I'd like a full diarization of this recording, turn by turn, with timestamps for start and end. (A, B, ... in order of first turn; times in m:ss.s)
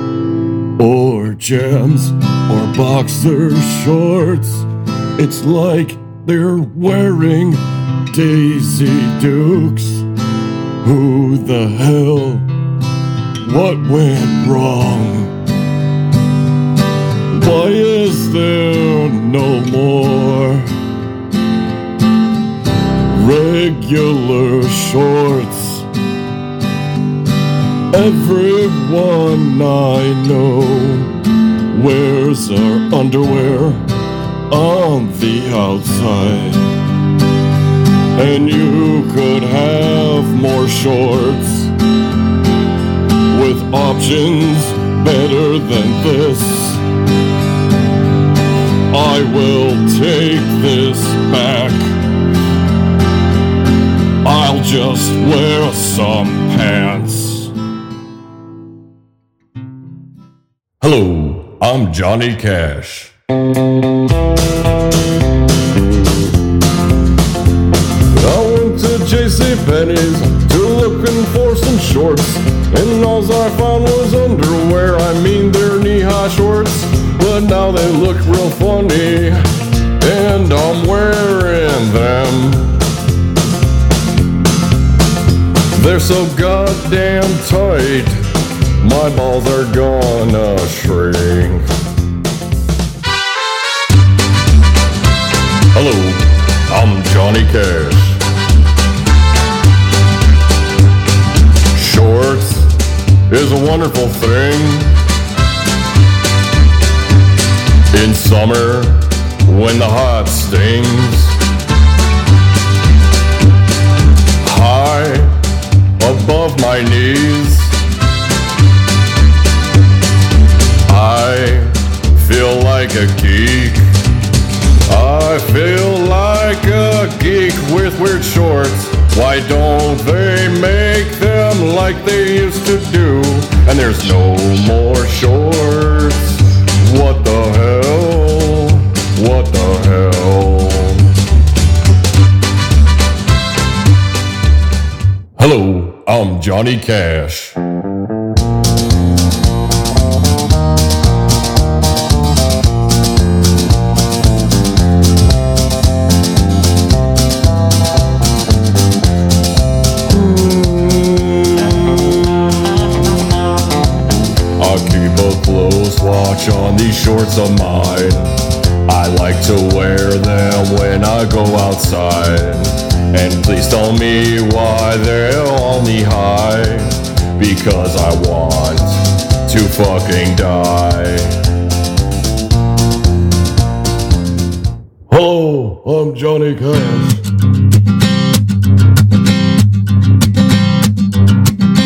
0:00.8-0:10.1 A
0:10.8-0:12.5 A
0:13.4-0:15.4 A
0:17.3-0:20.7 A
0:23.1-0:25.8 A
0:27.9-0:31.1 A
0:31.7-0:33.9 A
0:34.5-0:36.7 A
0:38.2-0:41.7 A
0:43.3-0:46.8 A
0:48.9-0:51.9 A
0:54.2-0:57.5 A
1:00.8-1:03.1 A
1:08.1-1:19.4 A
1:20.0-1:22.8 A
1:25.7-1:28.3 A
1:28.8-1:31.6 A
1:35.7-1:38.2 A
1:41.7-1:42.8 A
1:43.3-1:45.0 A
1:47.9-1:51.4 A
1:54.4-1:55.4 A
1:56.0-1:57.8 A
2:00.8-2:03.9 A
2:04.8-2:21.0 A
2:25.4-2:27.6 A
2:40.1-2:42.0 A
2:44.6-3:01.4 A
3:05.1-3:07.2 A